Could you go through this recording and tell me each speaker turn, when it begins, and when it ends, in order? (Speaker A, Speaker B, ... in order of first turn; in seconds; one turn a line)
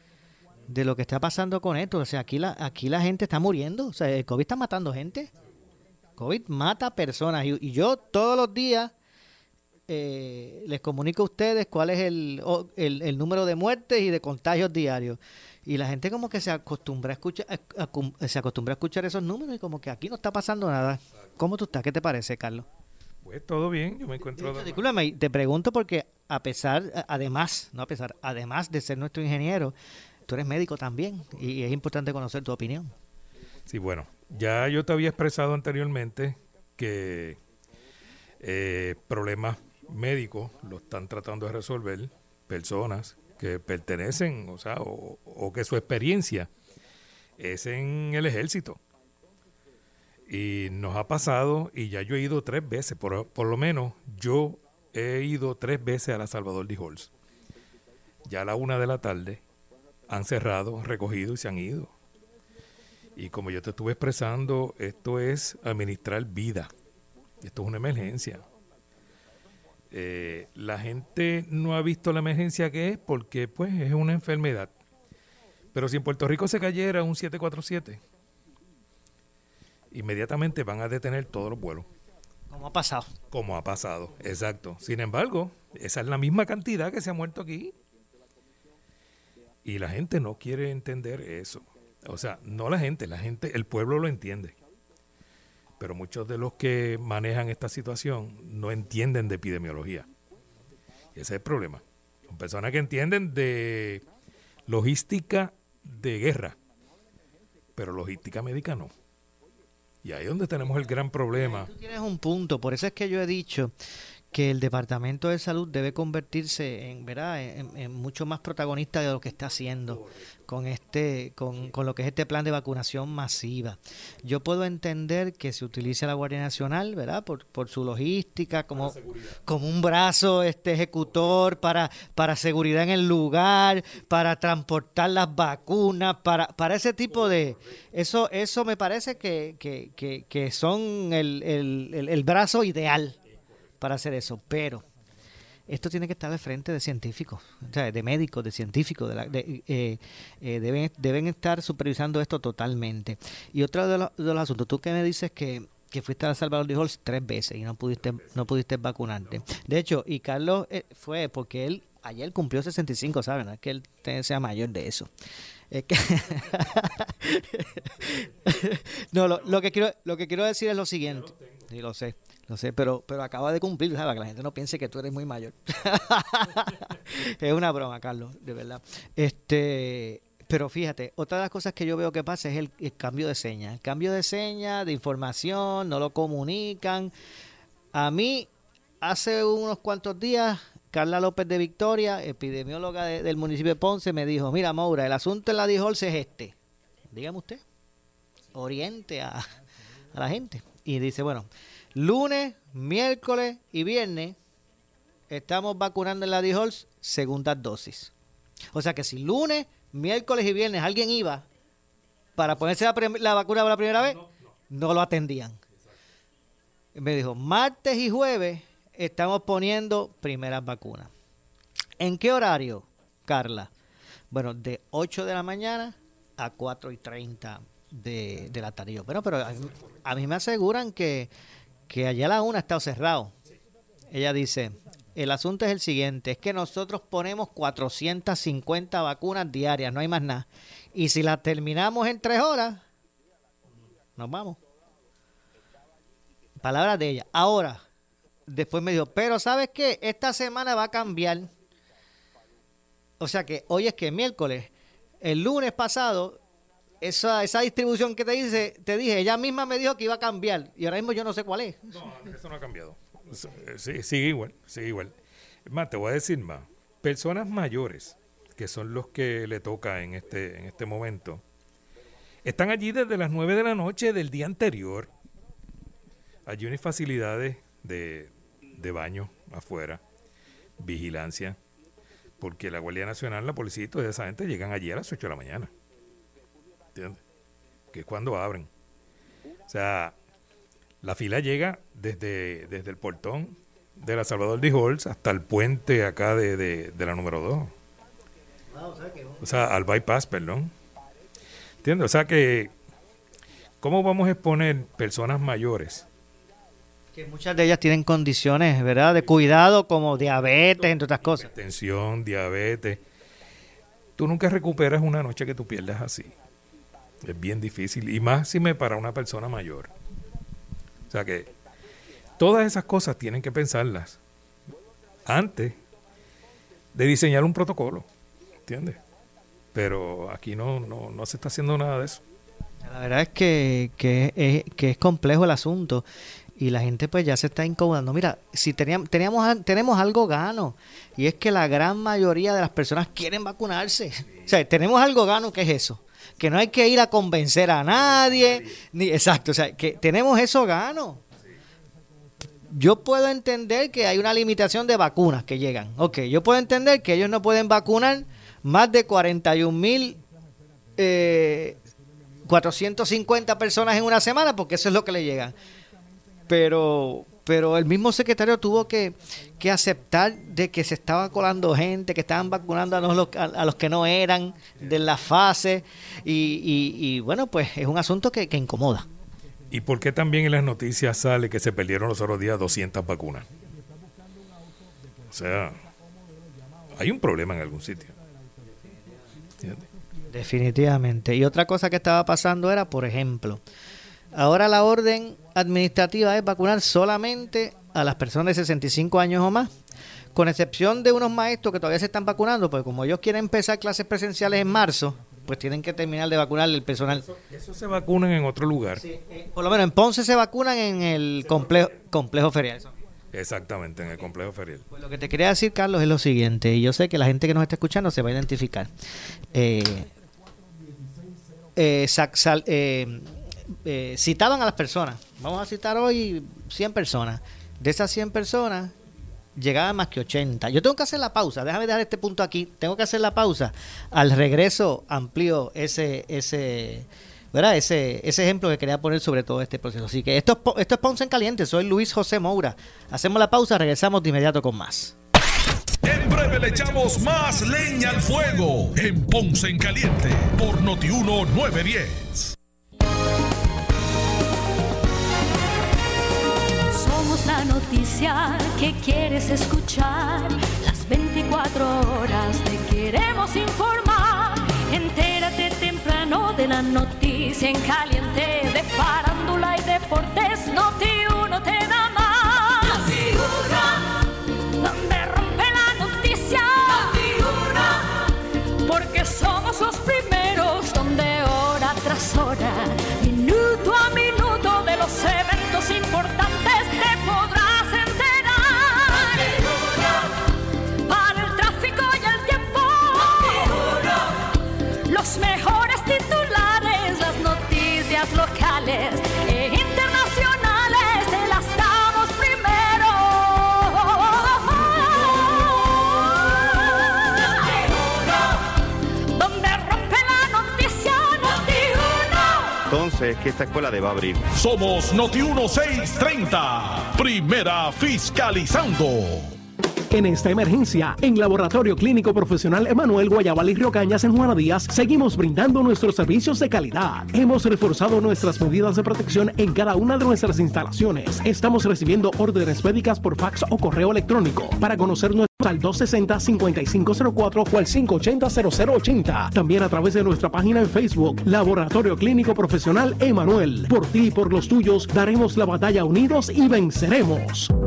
Speaker A: 0.7-5.3
Speaker A: 6.2-8.9
Speaker A: 9.9-22.7
Speaker B: 23.2-24.9
Speaker A: 24.2-29.8
Speaker A: 30.3-32.9
Speaker B: 33.7-37.4
Speaker B: 38.4-46.5
Speaker B: 47.4-48.8
Speaker B: 50.3-57.1
Speaker B: 58.3-59.4
Speaker B: 60.1-61.9
Speaker B: 63.2-66.7
Speaker B: 67.4-68.4
Speaker B: 69.9-74.7
Speaker B: 75.7-78.0
Speaker B: 79.9-81.9
Speaker A: 82.5-83.1
Speaker B: 83.3-87.7
Speaker B: 89.7-94.5
Speaker B: 95.8-100.1
Speaker B: 101.2-104.0
Speaker B: 104.7-106.5
Speaker B: 107.8-108.9
Speaker B: 110.0-111.7
Speaker A: 111.3-113.7
Speaker A: 114.3-143.2
Speaker B: 128.8-129.3
Speaker A: 143.8-144.8
Speaker A: 145.7-165.1
Speaker A: 165.7-187.1
Speaker B: 167.9-168.7
Speaker B: 171.2-171.5
Speaker A: 187.9-188.5
Speaker A: 189.0-196.5
Speaker A: 197.1-197.6
Speaker A: 198.6-199.5
Speaker A: 200.1-204.4
Speaker A: 205.3-208.1
Speaker A: 208.7-211.4
Speaker A: 212.4-214.2
Speaker A: 214.7-215.6
Speaker A: 216.9-221.1
Speaker A: 222.0-223.7
Speaker A: 224.3-231.3
Speaker A: 231.9-233.3
Speaker A: 234.1-242.8
Speaker A: 244.2-244.6
Speaker A: 246.6-247.8
Speaker A: 248.5-251.5
Speaker A: 253.2-254.7
Speaker A: 255.2-256.4
Speaker A: 257.0-262.0
Speaker B: 261.9-265.1
Speaker B: 265.7-271.4
Speaker B: 272.4-275.1
Speaker B: 276.5-280.0
Speaker B: 280.8-281.6
Speaker B: 282.4-285.7
Speaker B: 286.9-287.2
Speaker B: 287.9-288.7
Speaker B: 289.7-290.1
Speaker B: 291.0-297.7
Speaker A: 298.7-299.4
Speaker B: 299.4-300.7
Speaker B: 301.8-302.7
Speaker B: 303.8-306.1
Speaker A: 307.1-311.5
Speaker B: 309.2-309.5
Speaker B: 310.8-313.0
Speaker B: 314.2-316.3
Speaker B: 317.2-319.9
Speaker B: 321.1-321.5
Speaker B: 322.4-324.2
Speaker B: 325.3-325.8
Speaker B: 326.9-328.1
Speaker B: 328.7-329.0
Speaker B: 329.7-332.2
Speaker A: 332.8-336.1
Speaker A: 336.6-351.2
Speaker A: 352.7-360.2
Speaker A: 361.0-361.8
Speaker A: 362.5-365.5
Speaker A: 366.5-379.1
Speaker B: 379.7-383.5
Speaker B: 385.3-385.8
Speaker B: 386.9-388.1
Speaker A: 390.3-393.6
Speaker A: 394.3-399.8
Speaker A: 400.3-407.2
Speaker B: 407.3-409.0
Speaker A: 409.0-412.9
Speaker B: 413.3-414.9
Speaker A: 414.9-418.9
Speaker A: 419.5-420.1
Speaker A: 421.8-428.9
Speaker A: 429.6-445.1
Speaker C: 446.0-452.5
Speaker D: 456.9-474.2
Speaker D: 474.8-478.3
Speaker D: 478.8-490.1
Speaker D: 491.1-494.5
Speaker D: 495.1-508.4
Speaker D: 509.4-512.8
Speaker C: 514.6-519.5
Speaker E: 520.1-547.7